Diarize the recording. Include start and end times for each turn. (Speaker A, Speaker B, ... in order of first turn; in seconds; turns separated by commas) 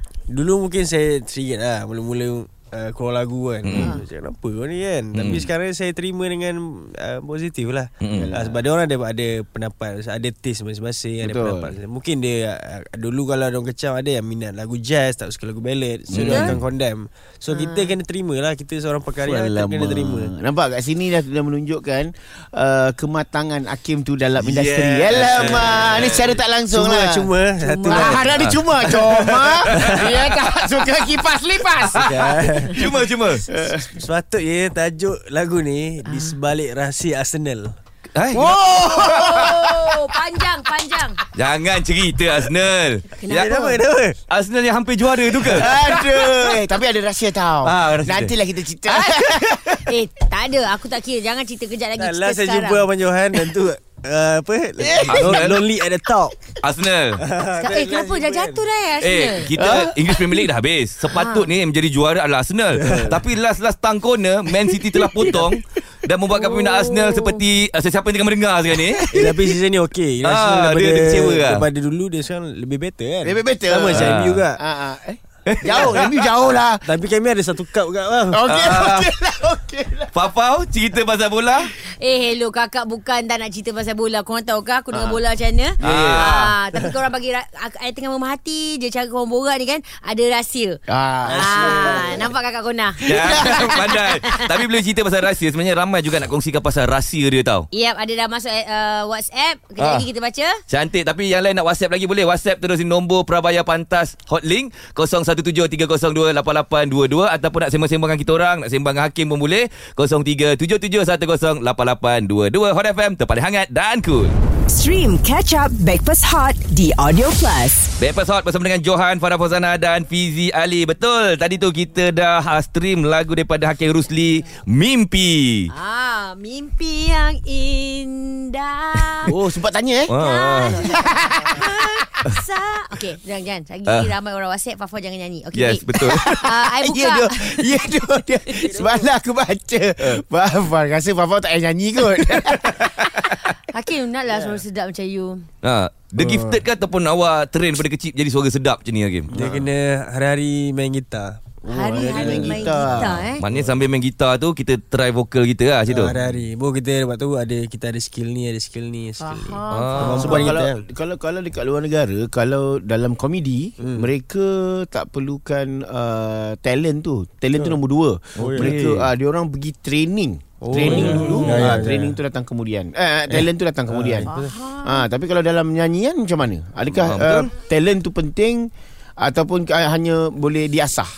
Speaker A: 0.3-20.3, Speaker B: 3.6-4.0, Speaker C: 3.7-4.0, Speaker B: 5.1-5.5, Speaker B: 8.0-8.3, Speaker D: 8.1-8.6, Speaker D: 11.2-11.8, Speaker D: 16.1-16.6, Speaker C: 16.2-16.5, Speaker C: 17.5-17.9, Speaker D: 19.2-27.3, Speaker B: 24.4-26.4, Speaker A: 25.2-26.1, Speaker A: 26.7-30.2, Speaker C: 27.6-28.2, Speaker D: 27.8-32.0, Speaker B: 28.2-30.8, Speaker B: 31.9-33.4, Speaker A: 31.9-32.9, Speaker A: 33.5-37.7, Speaker D: 33.5-33.8, Speaker C: 36.1-36.3, Speaker B: 38.1-39.5, Speaker D: 38.3-39.9, Speaker C: 38.7-41.2, Speaker B: 41.3-43.5, Speaker C: 43.2-43.8, Speaker A: 43.3-44.2, Speaker B: 44.3-46.5, Speaker D: 45.5-49.8, Speaker B: 47.6-48.3, Speaker B: 48.9-49.7, Speaker C: 49.9-52.9, Speaker A: 52.0-56.5, Speaker D: 54.8-55.4, Speaker B: 55.0-55.6, Speaker B: 56.6-57.2, Speaker A: 57.2-58.6, Speaker C: 57.6-59.5, Speaker B: 59.0-69.5, Speaker D: 59.5-60.5, Speaker C: 61.1-61.5, Speaker A: 62.7-63.2, Speaker A: 69.1-74.6, Speaker B: 70.2-71.7, Speaker D: 73.2-76.8, Speaker B: 73.9-74.4, Speaker B: 75.5-76.1, Speaker A: 75.7-76.0, Speaker A: 76.8-78.4, Speaker D: 78.3-80.1, Speaker B: 78.5-79.1, Speaker B: 80.1-81.7, Speaker C: 81.8-94.6, Speaker D: 84.9-85.2, Speaker B: 85.8-86.5, Speaker D: 85.8-86.1, Speaker D: 90.9-92.3, Speaker A: 91.2-92.3, Speaker B: 93.0-97.7, Speaker D: 93.0-94.0, Speaker C: 97.7-100.6, Speaker B: 100.7-114.3, Speaker E: 114.7-117.9, Speaker B: 118.0-125.7, Speaker C: 125.7-129.3, Speaker D: 129.2-130.1, Speaker B: 130.1-130.8, Speaker C: 130.2-137.8, Speaker D: 130.7-131.6, Speaker B: 135.5-136.5, Speaker D: 136.0-143.5, Speaker A: 138.6-139.1, Speaker C: 143.2-145.4, Speaker A: 144.3-144.6, Speaker B: 145.6-149.4, Speaker A: 146.2-146.6, Speaker A: 149.3-153.0, Speaker C: 151.7-153.4, Speaker D: 151.9-153.3, Speaker B: 153.4-156.4, Speaker A: 155.9-160.8, Speaker C: 159.2-160.3, Speaker B: 159.7-160.4, Speaker D: 160.2-174.3, Speaker A: 163.8-164.1, Speaker B: 168.4-169.1, Speaker A: 168.4-169.0, Speaker A: 170.6-172.2, Speaker B: 170.7-171.7, Speaker A: 173.3-174.6, Speaker C: 174.3-175.1, Speaker D: 174.8-178.7, Speaker B: 177.0-177.5, Speaker D: 179.2-181.1